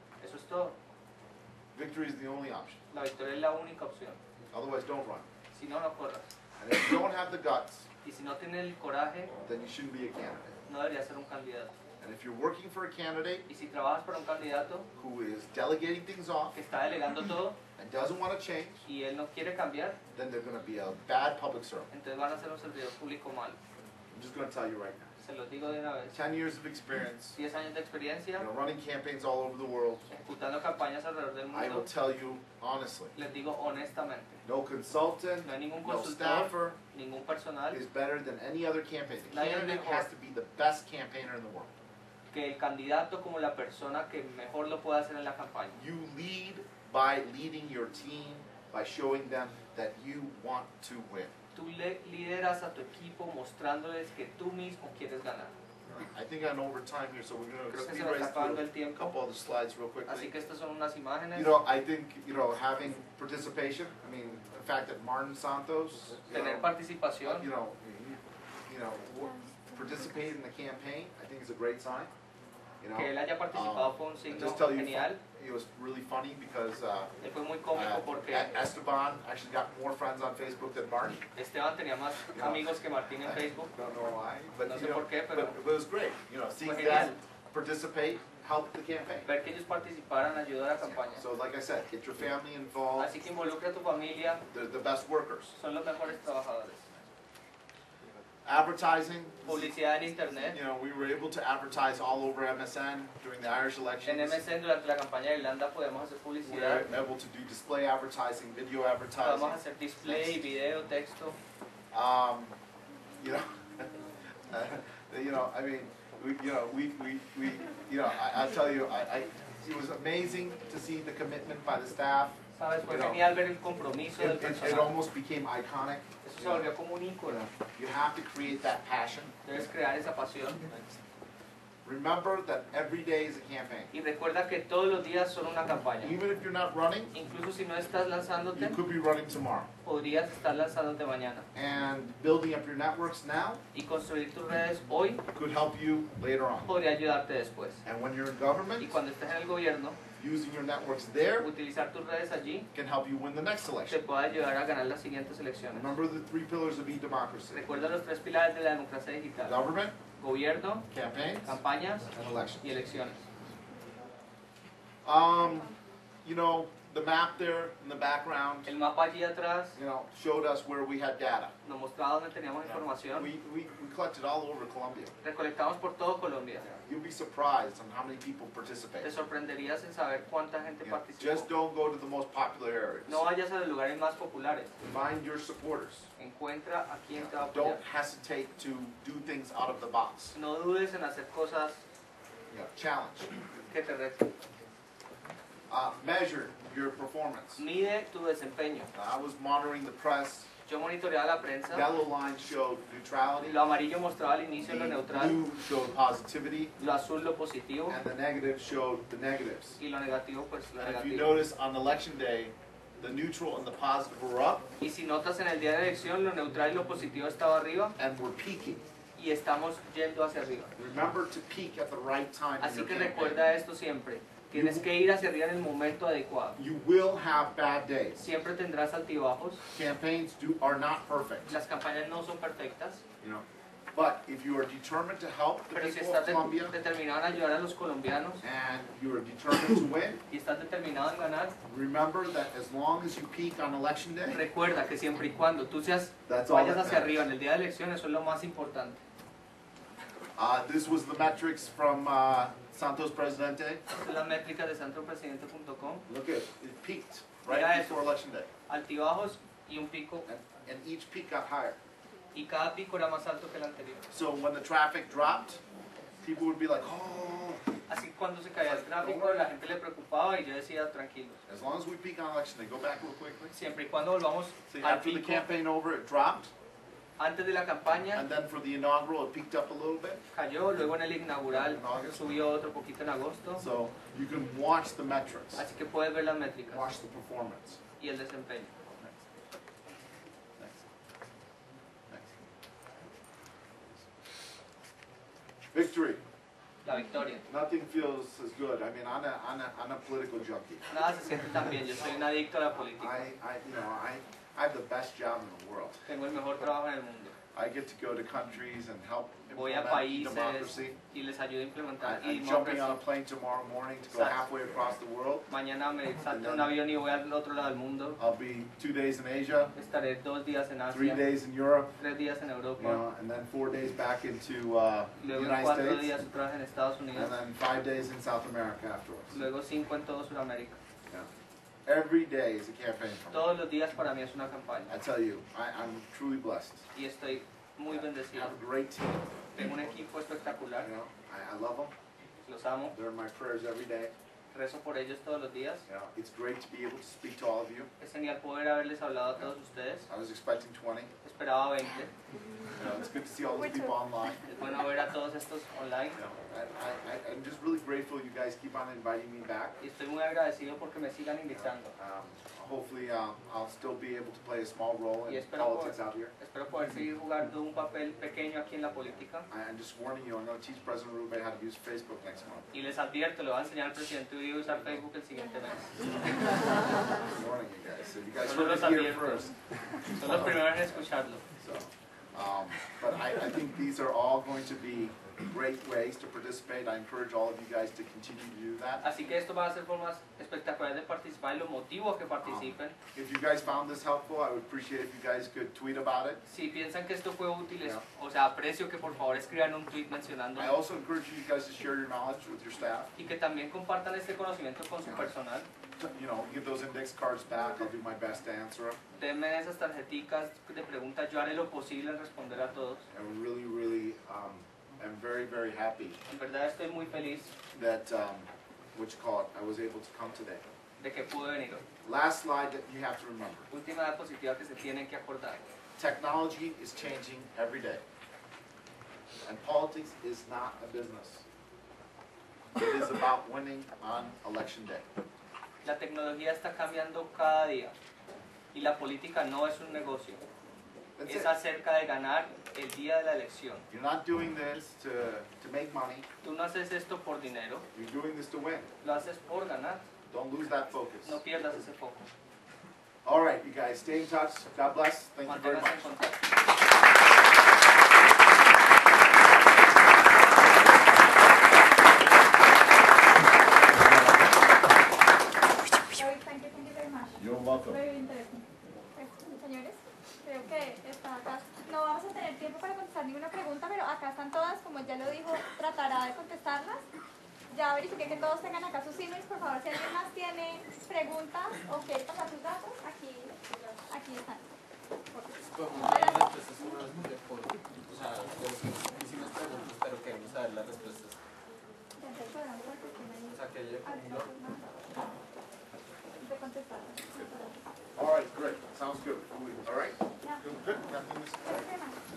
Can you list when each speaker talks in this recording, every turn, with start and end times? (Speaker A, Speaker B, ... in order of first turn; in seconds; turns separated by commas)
Speaker A: 0.2-0.8, Speaker B: 1.7-2.8, Speaker A: 2.9-4.2, Speaker B: 4.5-5.3, Speaker A: 5.5-6.3, Speaker B: 6.6-7.9, Speaker A: 8.0-9.3, Speaker B: 9.4-10.6, Speaker A: 10.7-11.7, Speaker B: 12.0-13.5, Speaker A: 13.5-14.9, Speaker B: 15.0-16.6, Speaker A: 16.5-17.6, Speaker B: 17.8-18.9, Speaker A: 18.9-20.0, Speaker B: 20.1-21.9, Speaker A: 21.9-23.6, Speaker B: 24.1-25.1, Speaker A: 25.2-26.2, Speaker B: 26.1-27.4, Speaker A: 27.4-28.5, Speaker B: 28.4-30.1, Speaker A: 30.1-31.9, Speaker B: 31.5-33.1, Speaker A: 33.1-34.4, Speaker B: 34.4-36.8, Speaker A: 35.4-37.8, Speaker B: 37.7-41.7, Speaker A: 39.3-40.1, Speaker A: 42.3-45.8, Speaker B: 45.8-51.3, Speaker A: 51.5-55.5, Speaker B: 55.9-60.3, Speaker A: 57.7-59.1, Speaker A: 60.1-61.5, Speaker B: 61.3-66.7, Speaker A: 66.3-67.5, Speaker B: 67.2-72.1, Speaker B: 72.8-77.1, Speaker A: 73.0-75.2, Speaker A: 77.2-78.6, Speaker B: 77.7-81.2, Speaker A: 81.4-83.7, Speaker B: 82.3-89.3, Speaker A: 84.7-85.6, Speaker A: 86.6-87.2, Speaker A: 89.3-91.2, Speaker B: 90.8-93.1, Speaker A: 93.0-94.4, Speaker B: 94.5-95.5, Speaker A: 95.5-96.9, Speaker B: 98.5-99.7, Speaker A: 99.5-100.6, Speaker B: 100.5-104.4, Speaker A: 104.0-106.9, Speaker B: 106.4-110.4, Speaker A: 109.2-111.4, Speaker B: 111.9-112.5, Speaker B: 113.2-113.9, Speaker B: 114.5-123.2, Speaker A: 122.5-124.9, Speaker B: 124.2-126.7, Speaker A: 126.2-127.4, Speaker B: 127.3-129.3, Speaker A: 129.4-130.7, Speaker B: 131.8-133.9, Speaker A: 133.9-136.2, Speaker B: 136.0-137.1, Speaker A: 137.1-138.8, Speaker B: 138.6-139.7, Speaker A: 139.8-141.5, Speaker B: 141.6-143.6, Speaker A: 143.7-145.2, Speaker B: 145.3-146.7, Speaker A: 146.7-147.8, Speaker B: 147.8-148.9, Speaker A: 148.8-150.0, Speaker B: 150.2-151.5, Speaker A: 151.4-152.7, Speaker B: 152.7-154.0, Speaker A: 153.9-155.9, Speaker B: 155.7-157.6, Speaker A: 157.5-159.6, Speaker B: 159.4-160.0, Speaker A: 160.2-160.9, Speaker B: 160.9-162.7, Speaker A: 161.4-162.1, Speaker A: 162.6-163.2, Speaker B: 165.0-165.7, Speaker B: 166.2-168.7, Speaker A: 168.7-169.8, Speaker B: 169.8-171.5, Speaker A: 171.6-173.3, Speaker B: 172.6-175.1, Speaker A: 175.2-176.7, Speaker B: 176.6-179.1, Speaker A: 179.0-181.5, Speaker B: 180.8-183.2, Speaker A: 183.1-184.7, Speaker B: 184.8-186.1, Speaker A: 186.2-187.8, Speaker B: 187.1-190.3, Speaker A: 190.3-191.8, Speaker B: 192.5-193.3, Speaker A: 193.7-194.3, Speaker B: 195.7-197.6, Speaker A: 197.6-198.9, Speaker B: 198.9-200.5, Speaker A: 200.7-201.9, Speaker B: 201.7-203.6, Speaker A: 203.4-205.4, Speaker B: 204.7-206.7, Speaker A: 206.8-208.0, Speaker B: 207.9-209.8, Speaker A: 209.8-211.3, Speaker B: 210.8-214.6, Speaker A: 214.8-217.9, Speaker B: 218.0-218.8, Speaker A: 219.2-220.7, Speaker B: 220.8-223.4, Speaker A: 222.6-226.6, Speaker B: 224.5-224.9, Speaker B: 226.6-228.2, Speaker A: 228.2-229.6, Speaker B: 229.7-231.6, Speaker A: 231.5-233.0, Speaker B: 233.2-236.8, Speaker A: 235.7-238.4, Speaker B: 238.4-240.2, Speaker A: 240.3-241.6, Speaker B: 241.7-244.4, Speaker A: 244.3-249.0, Speaker B: 246.3-247.2, Speaker B: 250.4-253.8, Speaker A: 253.9-256.1, Speaker B: 256.1-258.5, Speaker A: 257.5-258.1, Speaker A: 258.7-260.3, Speaker B: 260.3-261.8, Speaker A: 262.3-264.0, Speaker B: 264.1-265.6, Speaker B: 266.2-267.6, Speaker A: 267.9-271.4, Speaker B: 268.6-269.5, Speaker B: 271.5-273.5, Speaker A: 273.5-275.5, Speaker B: 274.7-276.5, Speaker A: 277.2-278.2, Speaker B: 278.1-280.2, Speaker A: 280.3-283.6, Speaker B: 281.5-282.3, Speaker B: 283.6-285.6, Speaker A: 285.6-286.9, Speaker B: 286.7-287.8, Speaker A: 288.0-288.7, Speaker B: 290.6-290.8, Speaker B: 292.1-292.4, Speaker B: 295.7-296.2, Speaker A: 296.8-297.4, Speaker B: 297.5-300.9, Speaker A: 300.9-303.2, Speaker B: 303.0-306.1, Speaker A: 306.1-307.3, Speaker B: 307.6-311.0, Speaker A: 309.5-313.0, Speaker B: 312.0-315.5, Speaker A: 314.1-314.5, Speaker A: 315.5-318.2, Speaker B: 316.3-316.7, Speaker B: 318.2-319.7, Speaker A: 319.8-321.2, Speaker B: 320.9-322.0, Speaker A: 322.0-323.0, Speaker B: 322.8-326.1, Speaker A: 325.2-327.3, Speaker B: 327.1-329.4, Speaker A: 329.3-330.8, Speaker B: 331.9-333.5, Speaker A: 333.3-334.9, Speaker B: 334.9-336.9, Speaker A: 336.9-338.6, Speaker B: 337.9-339.9, Speaker A: 339.6-340.9, Speaker B: 340.8-341.9, Speaker A: 342.4-342.9, Speaker B: 342.9-344.1, Speaker A: 344.5-345.9, Speaker B: 345.9-347.9, Speaker A: 348.0-350.1, Speaker B: 350.1-351.1, Speaker A: 351.2-352.1, Speaker B: 352.8-354.4, Speaker C: 353.5-353.9, Speaker A: 354.5-356.2, Speaker B: 356.2-359.8, Speaker A: 359.8-361.9, Speaker B: 361.5-366.3, Speaker A: 365.3-369.5, Speaker B: 369.5-372.7, Speaker A: 372.7-375.9, Speaker B: 377.3-380.7, Speaker A: 378.4-379.5, Speaker A: 380.1-381.4, Speaker B: 381.6-389.1, Speaker A: 389.0-392.9, Speaker B: 392.4-396.4, Speaker A: 396.5-400.8, Speaker B: 400.6-403.1, Speaker A: 403.2-405.7, Speaker B: 405.0-405.3, Speaker B: 406.0-409.0, Speaker A: 409.2-413.0, Speaker B: 413.1-416.2, Speaker A: 416.3-417.5, Speaker B: 417.7-420.6, Speaker A: 421.0-421.8, Speaker B: 422.0-423.7, Speaker A: 423.7-425.6, Speaker B: 426.0-428.0, Speaker B: 429.4-431.4, Speaker B: 432.8-435.1, Speaker A: 435.8-437.9, Speaker A: 438.7-440.4, Speaker B: 441.2-441.5, Speaker A: 441.3-443.8, Speaker B: 443.9-446.2, Speaker A: 446.4-447.9, Speaker B: 447.9-448.9, Speaker A: 449.0-450.0, Speaker B: 450.3-451.4, Speaker A: 451.2-452.2, Speaker B: 453.2-456.0, Speaker A: 455.5-456.4, Speaker C: 466.1-477.1, Speaker B: 467.4-468.0, Speaker C: 477.7-483.6, Speaker C: 484.1-484.6, Speaker D: 485.5-491.4, Speaker C: 486.0-486.5, Speaker C: 492.2-494.9, Speaker D: 493.5-494.5, Speaker C: 496.4-497.8, Speaker B: 498.2-501.9, Speaker C: 501.6-502.2